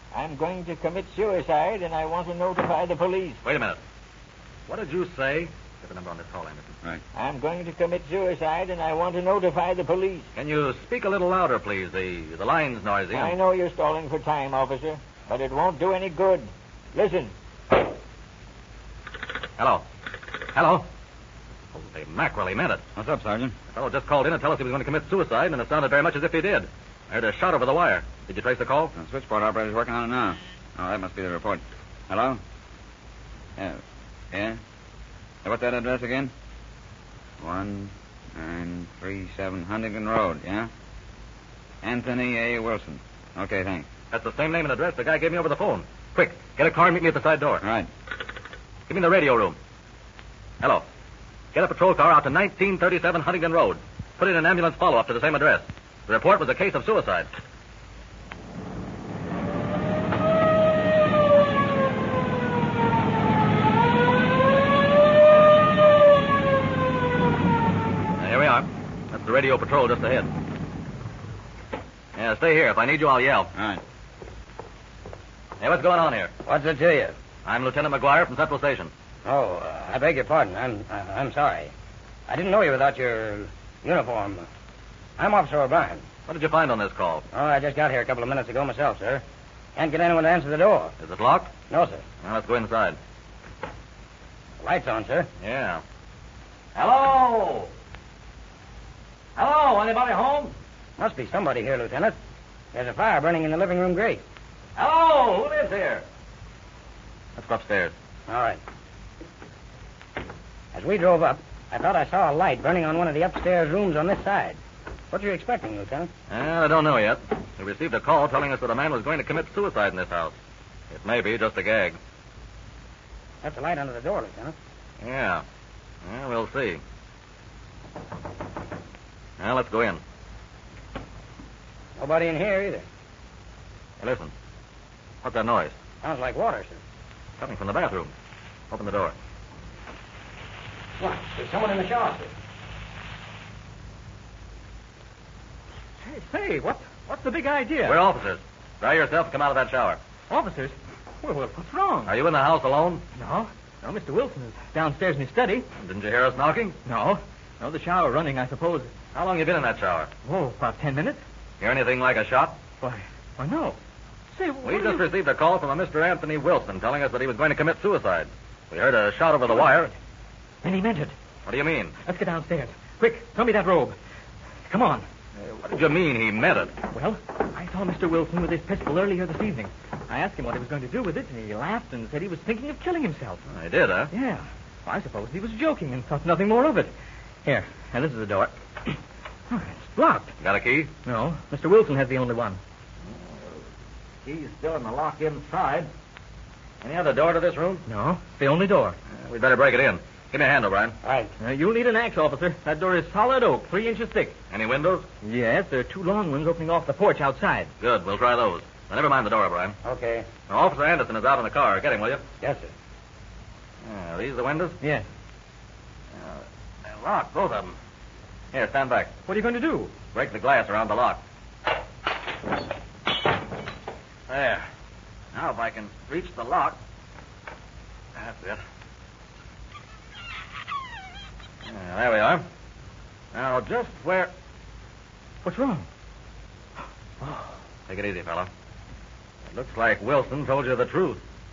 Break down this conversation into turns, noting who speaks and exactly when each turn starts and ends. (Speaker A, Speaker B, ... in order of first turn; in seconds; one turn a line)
Speaker A: 0.1-3.4
Speaker B: 3.4-3.8
Speaker B: 4.7-6.7
Speaker A: 7.2-10.3
Speaker B: 10.3-13.3
Speaker A: 13.1-17.3
Speaker B: 19.6-19.8
Speaker B: 20.5-20.9
Speaker B: 21.7-22.8
Speaker C: 23.0-23.5
Speaker B: 23.7-28.9
Speaker C: 28.9-32.4
Speaker C: 34.3-34.6
Speaker C: 35.4-36.3
Speaker C: 37.4-40.7
Speaker C: 41.8-43.8
Speaker B: 44.1-47.6
Speaker C: 47.6-47.9
Speaker B: 48.9-49.6
Speaker B: 51.5-57.3
Speaker B: 68.2-70.3
Speaker B: 72.2-73.5
Speaker B: 75.6-76.3
Speaker D: 76.5-77.1
Speaker B: 77.4-78.9
Speaker D: 79.2-81.7
Speaker D: 82.3-84.5
Speaker D: 85.2-86.0
Speaker B: 86.2-87.2
Speaker D: 87.3-89.2
Speaker D: 89.8-90.9
Speaker B: 91.0-91.5
Speaker D: 91.7-92.0
Speaker B: 92.2-93.0
Speaker D: 94.6-95.3
Speaker B: 95.4-95.8
Speaker B: 96.7-97.7
Speaker B: 99.3-100.5
Speaker D: 101.0-102.2
Speaker D: 102.7-104.2
Speaker B: 104.8-106.0
Speaker B: 107.3-107.9
Speaker D: 108.3-108.6
Speaker D: 110.7-114.6
Speaker D: 115.1-116.1
Speaker B: 116.3-120.3
Speaker B: 120.9-122.0
Speaker D: 123.4-124.5
Speaker B: 125.0-125.4
Speaker B: 126.0-126.8
Speaker B: 129.4-130.0
Speaker D: 132.0-132.8
Speaker B: 134.0-134.3
Speaker B: 135.2-135.8
Speaker D: 136.0-136.8
Speaker B: 137.4-138.1
Speaker B: 138.7-139.1
Speaker D: 141.0-142.3
Speaker E: 146.0-148.0
Speaker B: 147.8-150.0
Speaker E: 150.3-152.1
Speaker B: 152.1-153.0
Speaker E: 153.1-155.7
Speaker B: 155.8-156.8
Speaker E: 156.8-158.9
Speaker B: 159.1-160.1
Speaker E: 160.2-161.2
Speaker B: 161.6-162.6
Speaker E: 162.8-163.8
Speaker E: 164.3-165.1
Speaker B: 164.6-169.9
Speaker E: 170.6-171.1
Speaker B: 171.4-172.0
Speaker E: 172.0-174.0
Speaker E: 174.7-175.0
Speaker B: 175.3-176.8
Speaker E: 176.9-183.4
Speaker B: 183.5-184.1
Speaker E: 184.1-186.9
Speaker E: 187.4-189.0
Speaker E: 189.5-190.3
Speaker B: 190.4-190.9
Speaker E: 191.0-192.6
Speaker B: 193.1-193.6
Speaker B: 194.2-195.9
Speaker B: 196.8-197.8
Speaker E: 197.8-198.9
Speaker B: 199.1-200.9
Speaker D: 201.0-201.3
Speaker E: 201.4-204.3
Speaker B: 204.5-205.1
Speaker E: 205.2-207.7
Speaker B: 207.8-209.8
Speaker D: 209.8-210.3
Speaker B: 210.5-212.2
Speaker D: 212.4-212.7
Speaker B: 213.8-214.8
Speaker B: 216.1-217.8
Speaker B: 218.5-219.1
Speaker E: 219.3-219.9
Speaker B: 220.1-221.2
Speaker B: 224.3-224.7
Speaker B: 225.3-226.8
Speaker B: 228.2-228.6
Speaker B: 231.6-232.4
Speaker B: 233.3-234.3
Speaker E: 235.4-235.9
Speaker B: 237.9-238.5
Speaker B: 239.5-241.2